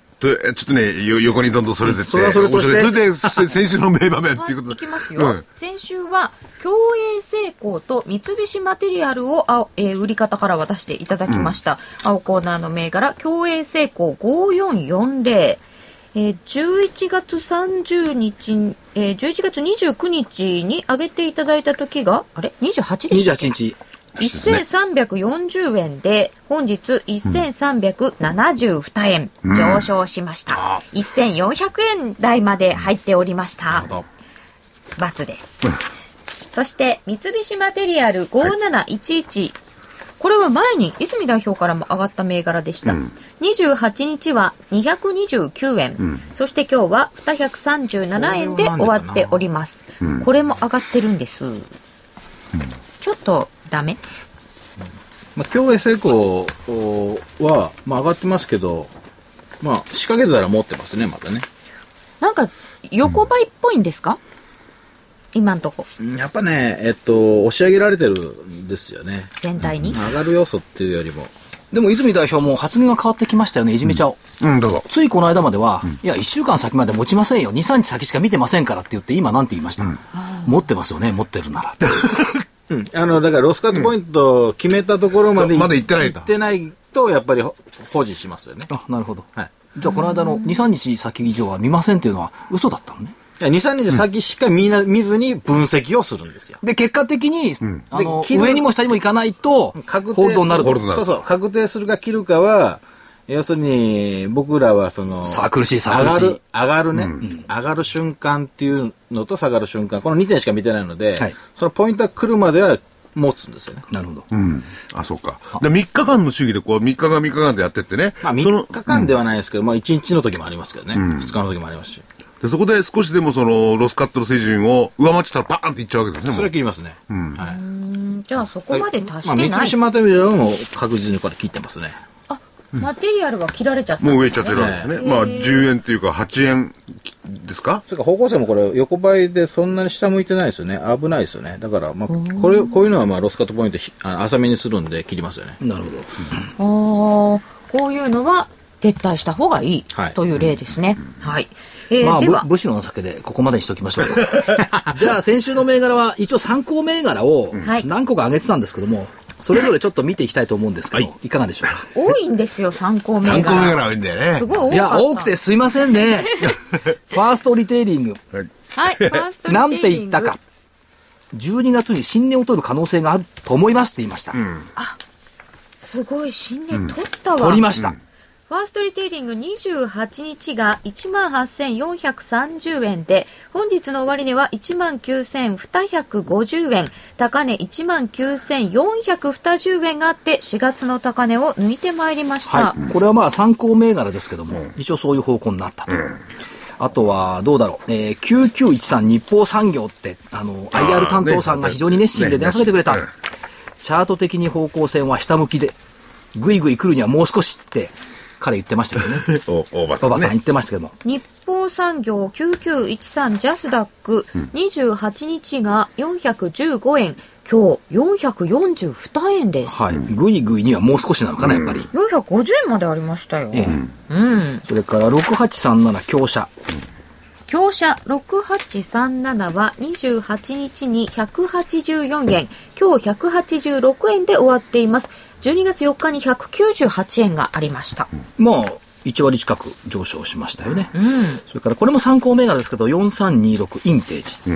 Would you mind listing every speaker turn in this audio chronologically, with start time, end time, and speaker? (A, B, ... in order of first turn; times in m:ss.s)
0:00.2-0:05.4 A
0:01.8-0:03.0 B
0:04.4-0:23.5 C
0:23.1-0:23.8 B
0:24.2-0:33.9 C
0:24.2-0:24.6 A
0:29.5-0:29.8 A
0:33.8-0:34.0 D
0:35.0-0:35.7 C
0:36.5-0:39.6 C
0:40.2-0:51.7 C
0:48.1-0:49.4 D
0:53.0-0:54.0 C
0:55.3-0:58.9 D
0:59.6-1:01.5 D
1:02.2-1:04.2 C
1:05.3-1:05.9 C
1:06.0-1:11.3 D
1:09.4-1:10.0 C
1:11.7-1:14.2 B
1:14.4-1:14.8 A
1:14.9-1:21.9 B
1:20.1-1:20.5 C
1:21.9-1:22.4 A
1:22.7-1:28.7 D
1:25.3-1:26.3 A
1:28.7-1:33.1 B
1:29.9-1:30.5 C
1:33.4-1:36.6 D
1:36.6-1:40.8 B
1:37.9-1:38.7 D
1:39.8-1:53.8 D
1:40.6-1:41.0 A
1:45.2-1:46.4 B
1:53.9-1:54.2 B
1:54.3-1:59.0 A
1:58.2-2:02.0 D
2:00.9-2:01.3 A
2:02.4-2:06.5 A
2:06.3-2:07.6 D
2:07.1-2:07.4 A
2:07.4-2:09.8 C
2:08.7-2:12.0 D
2:12.3-2:15.7 C
2:14.0-2:17.8 A
2:14.5-2:15.0 D
2:17.9-2:25.6 D
2:22.1-2:22.7 C
2:25.6-2:26.4 B
2:26.6-2:32.5 C
2:32.0-2:41.8 B
2:34.6-2:34.9 D
2:37.6-2:37.9 C
2:41.9-2:45.4 C
2:43.2-2:44.6 A
2:44.7-2:48.2 B
2:46.0-2:46.6 C
2:48.7-2:50.4 C
2:49.4-2:50.4 B
2:51.3-2:54.4 B
2:55.8-2:57.7 C
2:57.3-2:58.0 B
2:58.5-3:12.8 C
3:12.4-3:16.1 B
3:16.8-3:23.1 B
3:20.7-3:23.0 A
3:23.8-3:25.8 B
3:26.3-3:29.4 B
3:29.3-3:30.3 A
3:30.0-3:30.9 B
3:31.0-3:39.8 C
3:39.6-3:41.9 B
3:41.4-3:41.8 A
3:41.9-3:44.6 C
3:43.5-3:43.8 B
3:44.7-3:46.5 B
3:47.5-3:58.1 C
3:58.4-4:04.4 B
4:00.9-4:01.4 C